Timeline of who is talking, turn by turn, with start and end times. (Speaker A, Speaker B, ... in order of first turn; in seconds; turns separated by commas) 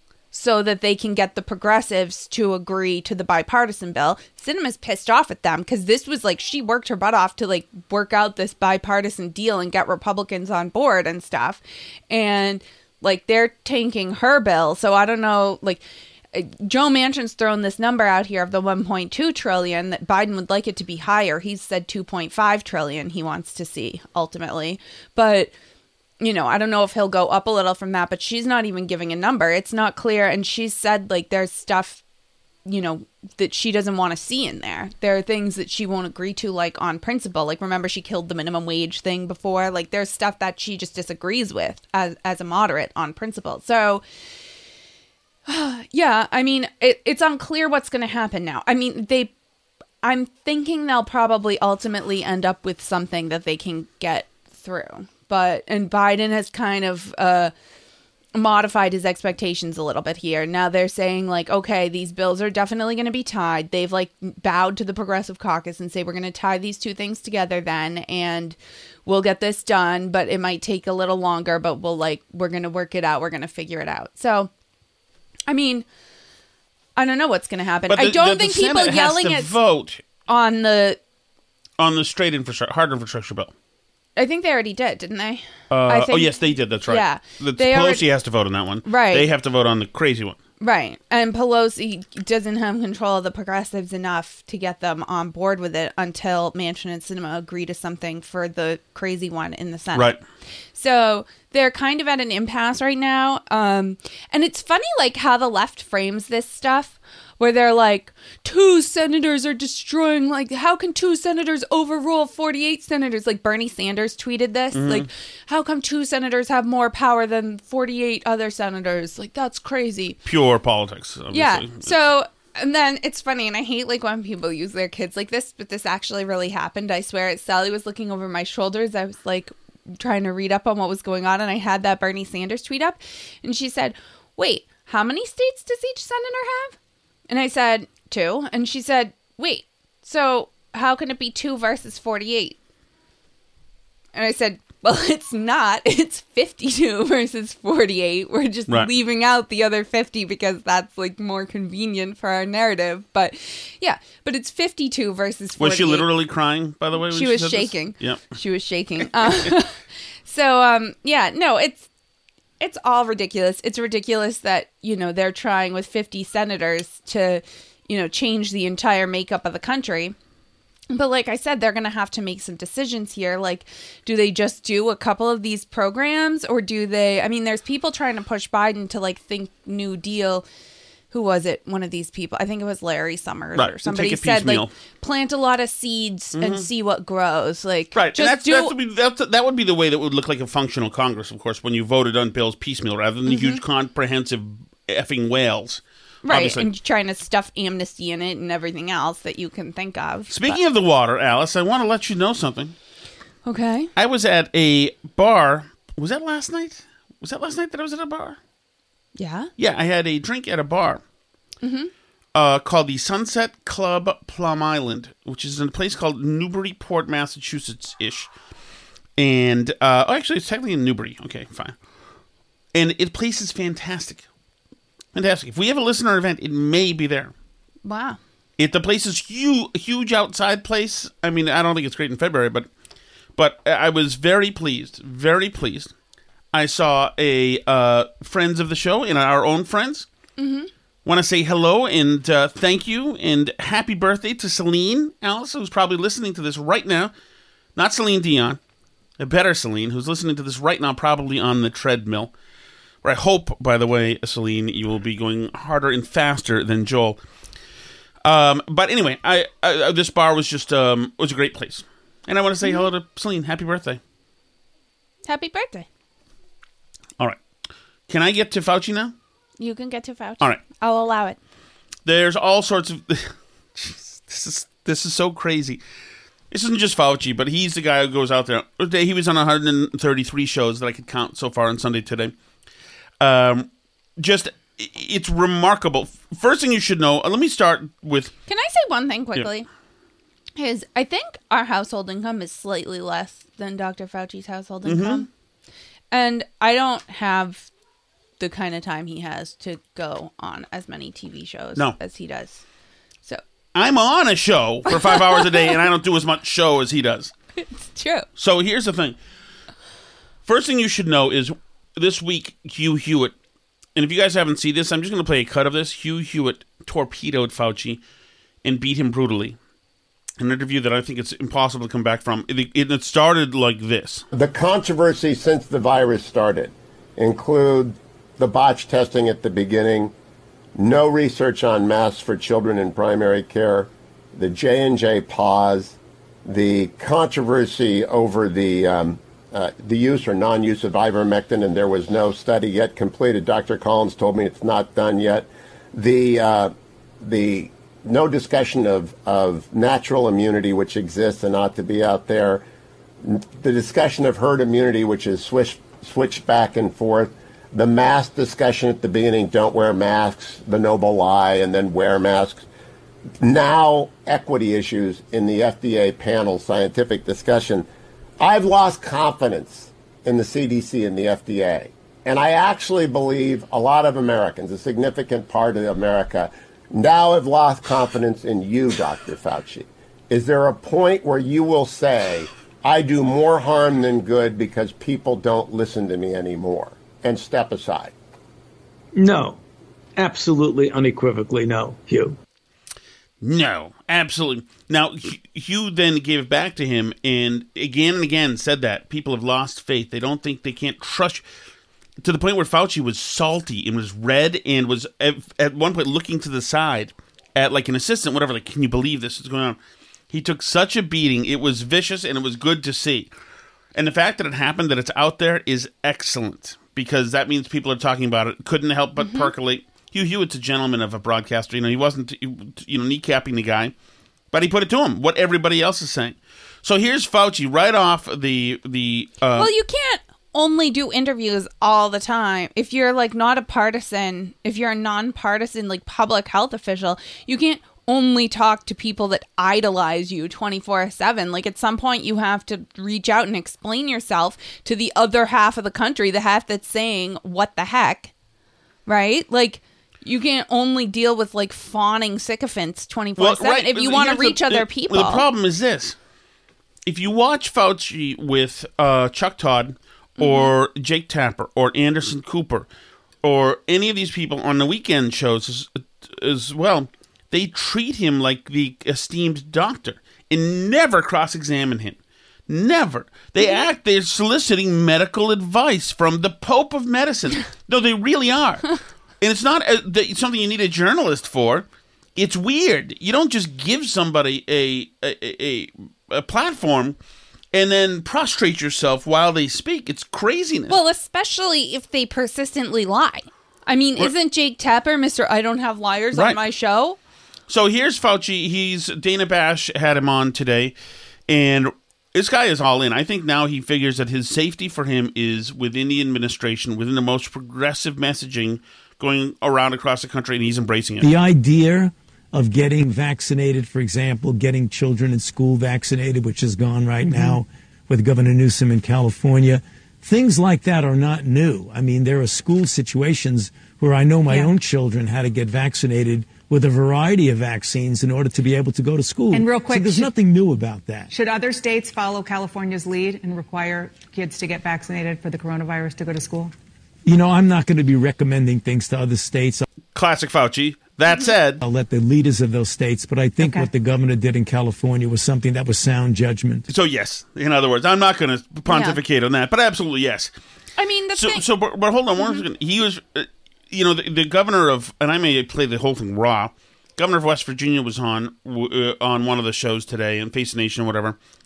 Speaker A: 0.3-25.5, Speaker A: 26.2-32.0, Speaker A: 32.7-44.0, Speaker A: 45.5-49.3, Speaker A: 50.0-57.5, Speaker A: 58.3-74.5, Speaker A: 75.5-75.9, Speaker A: 77.0-79.5, Speaker B: 77.9-80.0, Speaker A: 80.3-81.0, Speaker B: 81.8-83.5, Speaker A: 84.2-88.1, Speaker B: 85.7-90.4, Speaker A: 88.8-89.3, Speaker A: 90.6-100.2, Speaker B: 99.9-100.2, Speaker A: 100.8-120.2, Speaker B: 114.7-115.1, Speaker B: 120.2-121.9, Speaker A: 121.3-136.8, Speaker A: 137.3-142.6, Speaker A: 144.2-156.1, Speaker B: 155.6-158.3, Speaker A: 157.0-161.9, Speaker B: 159.2-159.5, Speaker A: 162.6-170.2, Speaker A: 170.9-180.5, Speaker A: 181.1-188.7, Speaker B: 183.6-184.7, Speaker B: 186.4-186.7, Speaker B: 187.9-196.7, Speaker A: 193.3-193.6, Speaker A: 196.2-200.6, Speaker B: 200.3-202.8, Speaker A: 203.4-203.9, Speaker B: 204.0-208.4, Speaker A: 209.2-209.5, Speaker B: 209.6-211.0, Speaker A: 211.6-211.9, Speaker B: 212.3-218.3, Speaker B: 219.2-221.8, Speaker B: 222.7-224.3, Speaker B: 225.2-227.3, Speaker A: 227.8-228.2, Speaker B: 228.6-232.7, Speaker B: 233.4-235.9, Speaker B: 236.5-240.1, Speaker A: 240.4-240.7, Speaker B: 241.1-247.1, Speaker B: 247.8-248.6, Speaker B: 249.2-252.3, Speaker B: 253.0-257.2, Speaker B: 258.2-264.0, Speaker A: 265.2-265.9, Speaker B: 268.1-269.1, Speaker A: 269.6-271.4, Speaker B: 272.1-275.8, Speaker B: 276.5-282.3, Speaker B: 283.2-288.3, Speaker A: 288.5-289.7, Speaker A: 290.6-295.3, Speaker B: 294.9-295.2, Speaker A: 296.1-297.7, Speaker A: 298.4-302.6, Speaker B: 303.8-307.3, Speaker A: 304.9-305.8, Speaker A: 307.7-308.3, Speaker B: 308.4-309.2, Speaker B: 310.5-313.3, Speaker B: 314.0-318.0, Speaker B: 318.6-319.6, Speaker B: 320.4-324.2, Speaker C: 324.3-330.1, Speaker C: 330.8-352.6, Speaker C: 353.2-362.6, Speaker C: 363.4-367.9, Speaker C: 368.4-388.1, Speaker D: 389.2-389.6, Speaker D: 390.2-392.3, Speaker B: 393.4-401.4, Speaker B: 402.2-409.8, Speaker B: 410.3-413.3, Speaker B: 413.9-423.9, Speaker A: 419.2-419.5, Speaker B: 424.5-429.7, Speaker A: 429.6-448.3, Speaker A: 449.1-455.4, Speaker B: 453.4-456.2, Speaker B: 457.1-462.9, Speaker A: 460.4-460.7, Speaker B: 463.4-487.2, Speaker A: 473.6-473.9, Speaker B: 487.7-491.0, Speaker A: 490.9-497.2, Speaker B: 496.3-496.6, Speaker B: 497.7-500.9, Speaker B: 501.5-511.3, Speaker E: 511.3-512.0, Speaker D: 511.4-512.0, Speaker E: 512.6-517.6, Speaker F: 517.3-517.6, Speaker E: 518.2-531.2, Speaker D: 522.9-524.0, Speaker D: 526.4-526.7, Speaker F: 529.5-530.3, Speaker F: 531.3-536.7, Speaker E: 537.3-539.8, Speaker B: 540.1-541.8, Speaker E: 541.8-546.8, Speaker F: 543.6-543.9, Speaker B: 546.9-550.5, Speaker A: 548.9-549.2, Speaker A: 551.0-551.6, Speaker B: 551.3-561.4, Speaker A: 552.4-552.6